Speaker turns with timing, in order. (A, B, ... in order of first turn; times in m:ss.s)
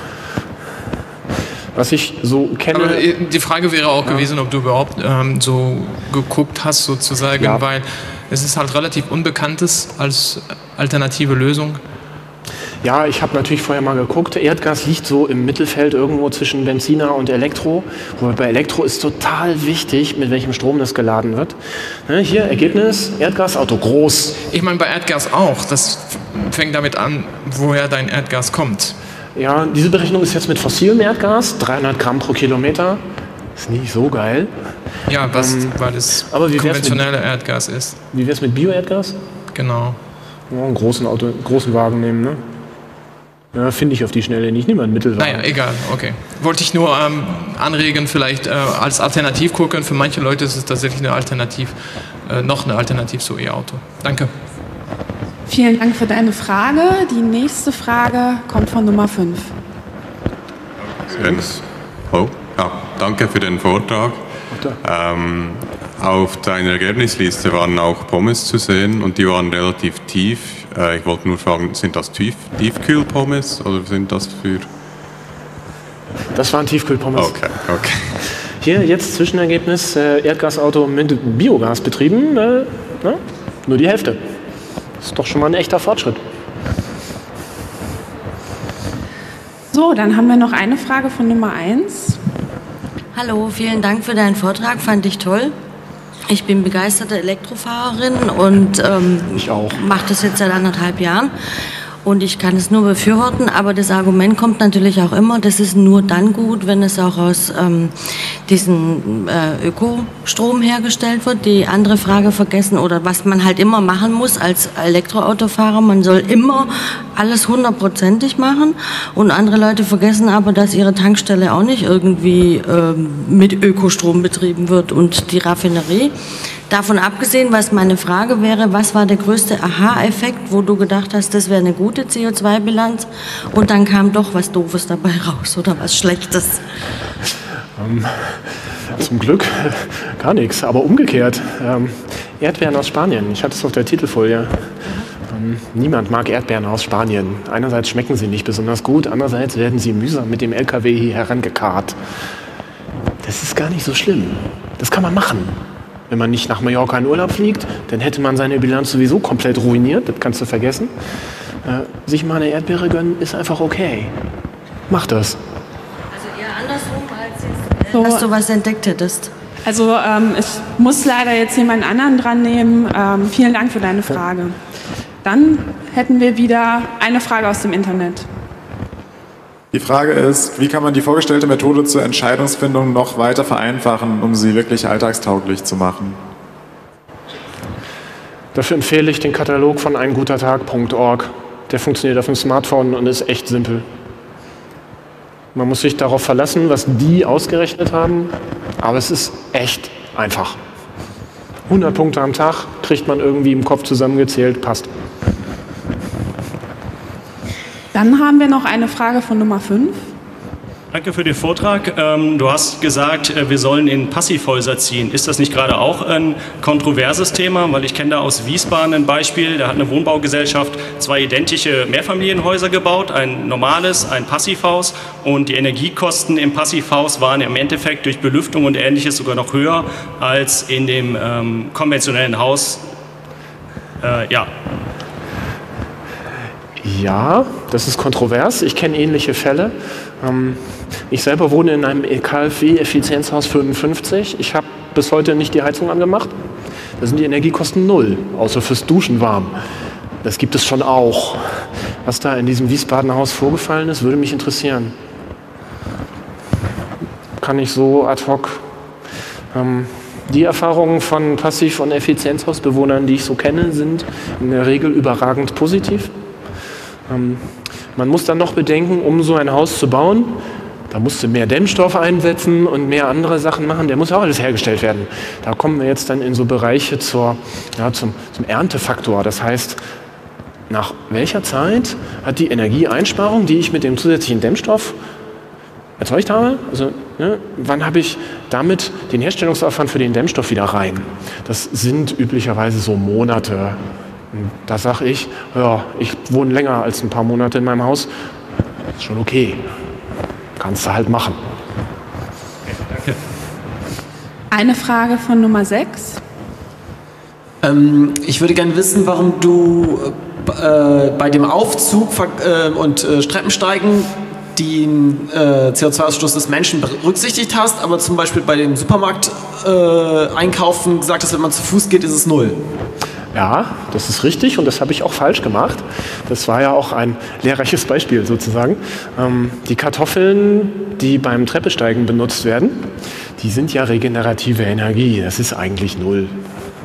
0:01.8-0:03.0 A
0:02.7-0:11.8 B
0:07.4-0:07.6 A
0:12.8-0:24.4 A
0:24.5-0:29.0 B
0:29.4-0:33.0 A
0:33.6-0:34.5 A
0:35.1-0:38.0 B
0:35.2-0:35.7 A
0:36.3-0:37.0 A
0:38.1-0:39.2 A
0:39.6-0:40.0 B
0:40.5-0:42.4 A
0:43.5-0:45.4 A
0:45.2-0:54.3 B
0:55.5-0:59.5 C
1:01.1-1:04.2 D
1:01.2-1:01.5 A
1:04.8-1:14.7 D
1:16.4-1:17.6 A
1:17.2-1:18.2 D
1:18.6-1:24.2 A
1:25.0-1:26.2 A
1:29.7-1:32.2 C
1:33.2-1:35.5 E
1:36.3-1:41.3 E
1:39.3-1:39.8 A
1:42.0-1:47.9 E
1:48.5-2:06.1 E
2:06.7-2:16.6 E
2:17.8-2:24.7 A
2:25.3-2:32.0 A
2:33.2-2:35.6 A
2:36.1-2:40.9 A
2:41.6-2:44.1 A
2:44.9-2:45.4 A
2:46.1-2:49.3 E
2:47.9-2:48.3 C
2:49.6-2:54.6 C
2:55.2-2:58.3 C
2:59.7-3:06.2 F
3:08.6-3:13.9 A
3:15.6-3:20.6 A
3:21.7-3:24.9 A
3:27.9-3:30.1 C
3:30.9-3:52.8 G
3:54.0-3:54.5 G
3:56.8-4:06.3 A
4:07.0-4:09.6 A
4:10.2-4:15.0 A
4:17.4-4:18.6 A
4:19.5-4:26.1 A
4:27.1-4:39.8 A
4:40.7-4:45.0 A
4:46.0-4:53.8 A
4:54.3-4:58.1 A
4:59.0-4:59.6 A
5:00.6-5:01.4 A
5:04.5-5:06.2 C
5:07.6-5:22.6 H
5:23.3-5:36.4 A